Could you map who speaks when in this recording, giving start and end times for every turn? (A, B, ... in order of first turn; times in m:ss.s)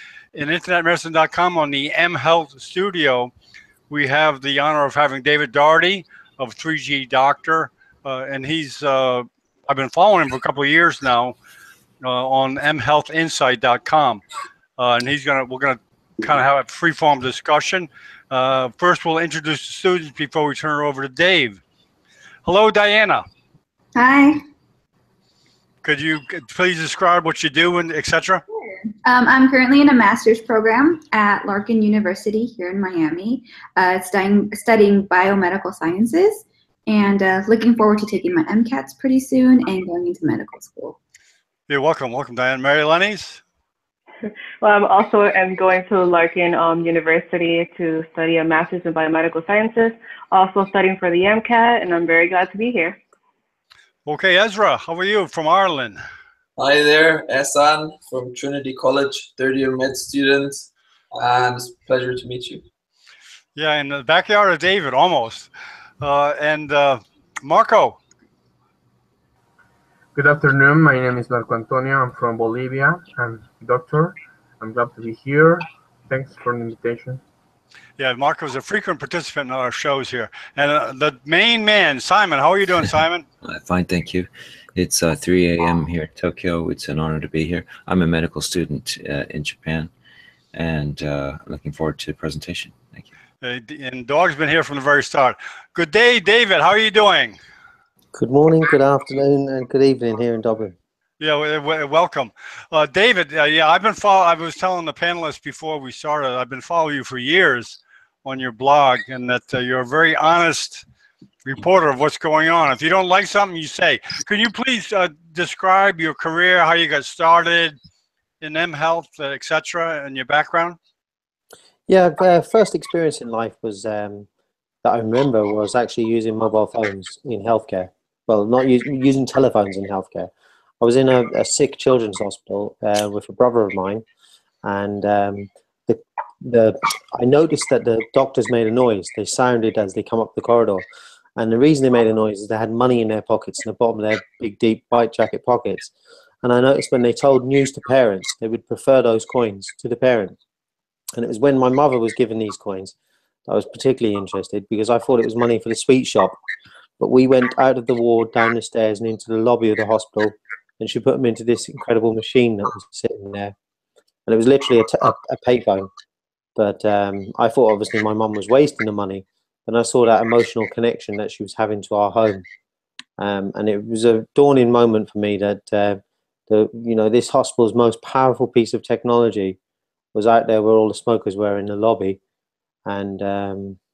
0:00.3-0:03.3 A
0:03.9-0:11.4 A
0:12.0-0:14.2 A
0:14.8-0:21.6 A
0:22.4-0:23.2 A
0:24.0-0:24.4 B
0:25.8-0:28.4 A
0:28.9-0:41.0 B
0:41.7-0:43.4 A
0:44.6-0:53.0 C
0:54.1-0:56.0 A
0:56.6-1:02.6 D
1:03.6-1:05.5 A
1:06.0-1:08.0 A
1:10.2-1:17.2 E
1:18.0-1:23.2 A
1:23.4-1:29.9 F
1:30.5-1:33.1 F
1:33.4-1:37.4 A
1:38.1-1:40.8 G
1:41.2-1:50.8 A
1:51.4-1:57.8 A
1:58.4-2:00.8 A
2:01.9-2:04.3 G
2:04.8-2:14.0 G
2:14.6-2:20.8 G
2:21.4-2:30.4 G
2:31.2-2:32.9 G
2:33.5-2:36.4 G
2:37.0-2:43.5 G
2:44.3-2:45.9 G
2:46.6-2:52.5 G
2:53.2-2:59.6 G
3:00.1-3:02.2 G
3:02.9-3:03.8 G